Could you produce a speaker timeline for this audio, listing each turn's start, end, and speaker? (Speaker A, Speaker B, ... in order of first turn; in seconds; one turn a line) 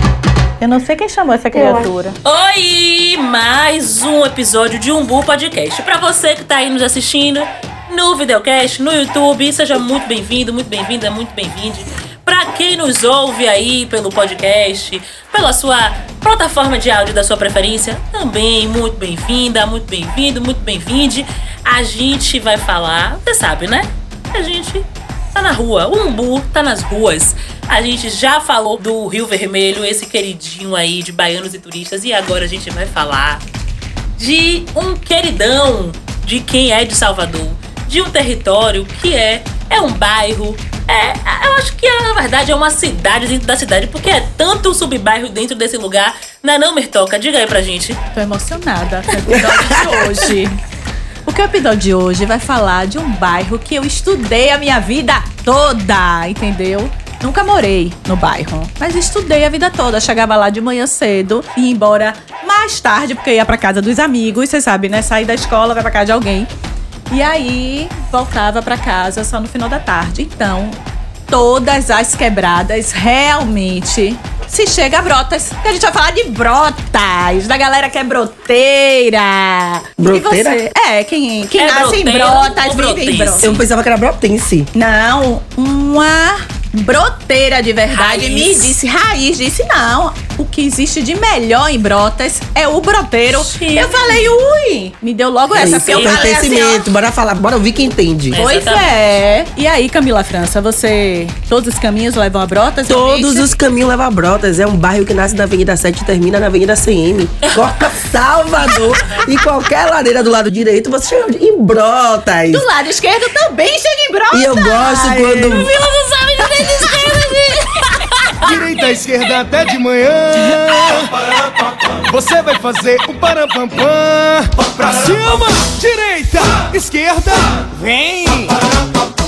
Speaker A: 0.6-2.2
Speaker B: 1.5-1.9
Speaker C: 2.2-33.4
Speaker C: 34.2-48.0
Speaker A: 48.1-50.6
Speaker B: 49.3-49.9
Speaker A: 51.2-66.5
Speaker A: 67.1-70.8
Speaker A: 71.3-83.5
Speaker B: 80.0-80.6
Speaker C: 81.6-83.6
Speaker B: 83.4-84.7
Speaker A: 84.7-96.8
Speaker C: 87.9-88.7
Speaker C: 93.3-94.3
Speaker B: 95.5-98.4
Speaker C: 95.6-96.3
Speaker C: 98.3-99.1
Speaker A: 98.4-103.5
Speaker B: 102.9-112.7
Speaker C: 107.4-107.7
Speaker A: 112.5-117.8
Speaker B: 114.3-115.7
Speaker C: 116.6-117.1
Speaker D: 118.4-128.6